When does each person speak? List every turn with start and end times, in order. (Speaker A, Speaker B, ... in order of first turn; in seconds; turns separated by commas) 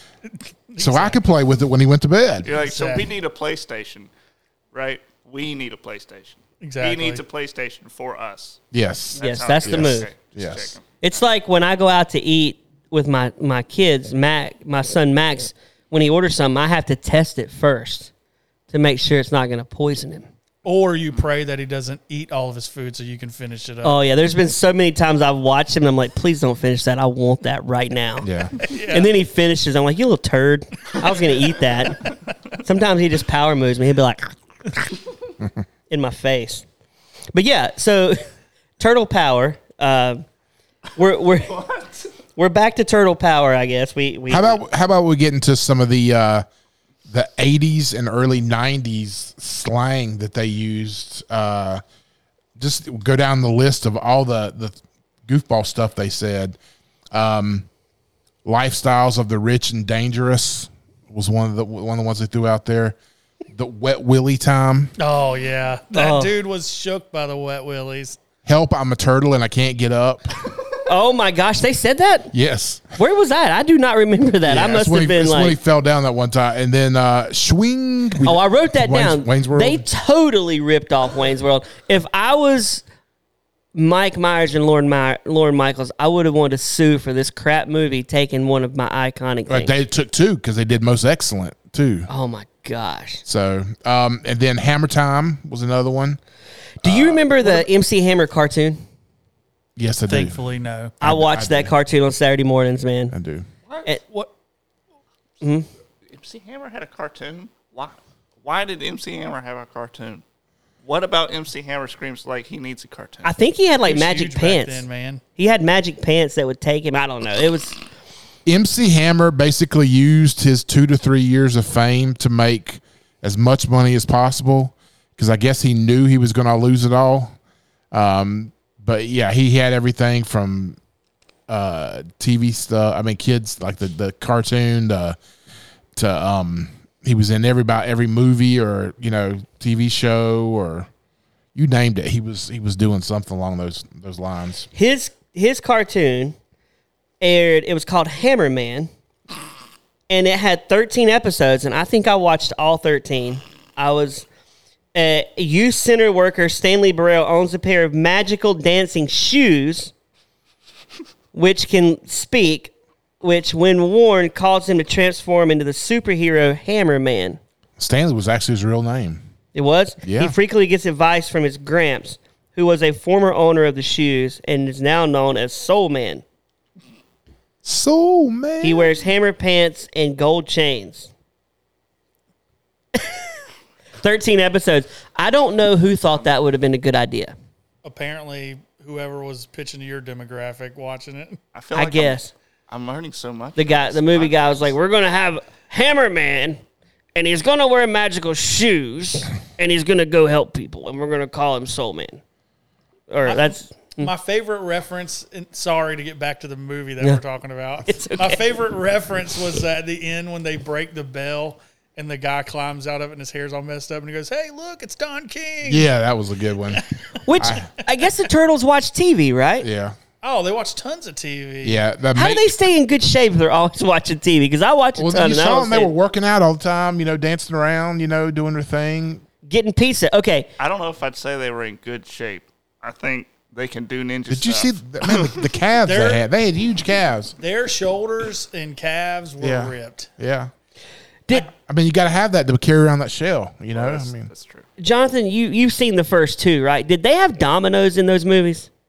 Speaker A: 0.2-1.2, Speaker B: 0.8-2.6, Speaker C: 2.4-4.1, Speaker A: 2.5-3.1, Speaker C: 4.7-8.6, Speaker A: 6.6-7.2, Speaker B: 8.7-10.7, Speaker C: 9.1-10.9, Speaker D: 9.2-10.1, Speaker D: 11.0-18.1, Speaker D: 18.7-20.3, Speaker A: 20.6-24.0, Speaker D: 23.8-34.8, Speaker B: 28.2-28.5, Speaker A: 28.6-29.1, Speaker D: 35.9-36.6, Speaker D: 37.3-38.2, Speaker D: 38.8-40.2, Speaker D: 41.0-41.6, Speaker C: 41.6-41.9, Speaker D: 42.4-44.6, Speaker B: 44.3-46.4, Speaker B: 47.1-51.8, Speaker B: 52.6-56.6, Speaker B: 57.1-57.7, Speaker B: 58.4-63.0, Speaker B: 63.5-64.9, Speaker A: 65.0-68.2, Speaker D: 65.9-66.3, Speaker B: 68.5-70.4, Speaker D: 70.8-72.3, Speaker B: 72.3-73.0, Speaker D: 73.0-75.6, Speaker B: 74.4-79.8, Speaker D: 78.2-82.8, Speaker D: 83.7-89.7, Speaker B: 89.5-92.1, Speaker D: 92.1-93.2, Speaker B: 93.2-96.2, Speaker B: 96.8-97.5, Speaker D: 96.8-98.8, Speaker B: 99.8-100.4, Speaker A: 100.1-100.9, Speaker B: 101.0-101.7, Speaker D: 101.0-103.1, Speaker B: 103.1-103.5, Speaker A: 104.0-104.3, Speaker D: 105.4-105.7, Speaker C: 106.1-110.2, Speaker C: 110.8-113.3, Speaker D: 113.2-117.8, Speaker A: 113.8-115.2, Speaker B: 118.5-127.3, Speaker B: 127.9-130.8, Speaker B: 131.5-135.2, Speaker B: 135.9-140.9, Speaker B: 141.5-144.7, Speaker D: 144.7-146.3, Speaker D: 147.2-148.9, Speaker D: 150.1-154.2, Speaker D: 154.9-159.9, Speaker D: 161.3-167.4, Speaker B: 167.8-169.2, Speaker D: 169.5-176.2, Speaker B: 170.0-170.3, Speaker B: 177.6-178.9, Speaker D: 178.6-181.1, Speaker D: 184.0-187.3, Speaker A: 187.8-191.4, Speaker C: 191.5-194.7, Speaker D: 191.7-192.3, Speaker D: 193.6-196.6, Speaker D: 197.1-202.2, Speaker D: 203.1-204.1, Speaker A: 203.2-215.9, Speaker D: 207.8-208.4, Speaker B: 215.6-216.8, Speaker D: 217.2-219.7, Speaker B: 217.3-217.7, Speaker B: 219.6-219.9, Speaker A: 220.2-221.8, Speaker B: 221.6-222.4, Speaker D: 222.1-225.9, Speaker B: 225.0-229.2, Speaker D: 229.4-230.5, Speaker C: 230.6-235.4, Speaker B: 234.3-237.3, Speaker A: 235.8-236.2, Speaker A: 237.4-240.1, Speaker B: 239.4-240.5, Speaker B: 241.6-244.3, Speaker C: 243.7-244.7, Speaker D: 244.8-248.7